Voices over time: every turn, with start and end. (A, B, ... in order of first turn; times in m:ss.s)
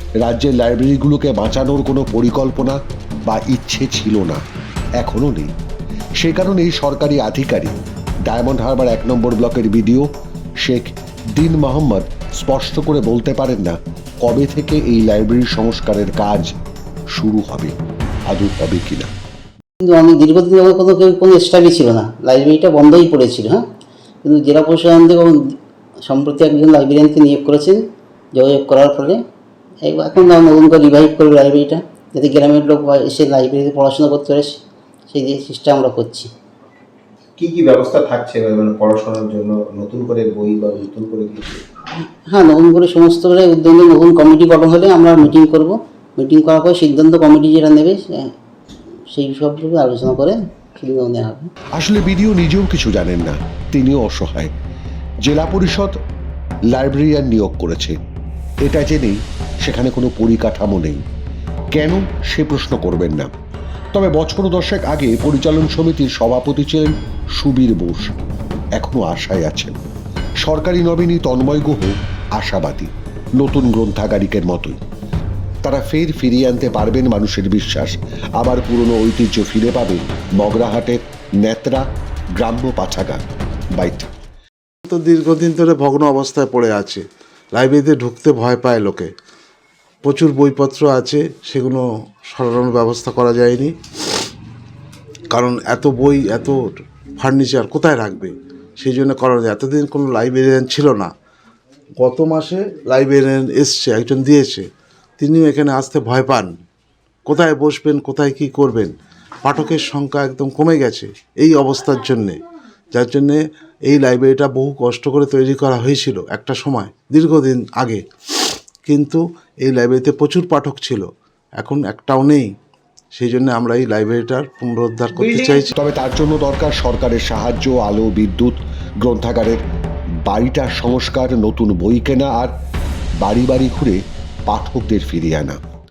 0:00.2-0:04.4 A
0:05.0-0:05.5 A
0:06.2-0:10.1 A
0:10.6-0:16.5 A
0:17.1-0:17.7 A
0:18.3-0:19.1 A
0:19.8-0:23.6 B
0:24.2-0:25.4 B
0:26.0-0:27.8 B
0:28.3-0:29.2 B
0:29.8-0:34.6 B
0:35.1-0:36.3 B
0:37.4-0:41.6 C
0:42.0-0:48.3 B
0:49.1-0:51.5 B
0:51.7-0:54.5 A
0:55.2-0:55.9 A
0:56.7-0:58.0 A
0:58.6-1:01.0 A
1:01.7-1:03.3 A
1:03.9-1:08.1 A
1:08.8-1:09.8 A
1:10.4-1:14.8 A
1:15.6-1:21.8 A
1:22.4-1:23.2 A
1:23.7-1:24.1 A
1:24.9-1:27.0 D
1:27.5-1:29.1 D
1:30.0-1:33.7 D
1:35.3-1:41.1 D
1:42.0-1:44.6 D
1:45.2-1:46.5 D
1:47.2-1:52.4 D
1:52.9-1:58.0 D
1:58.8-2:01.1 D
2:01.6-2:02.5 D
2:03.1-2:05.7 D
2:05.5-2:09.6 A
2:10.2-2:12.5 A
2:13.2-2:15.6 A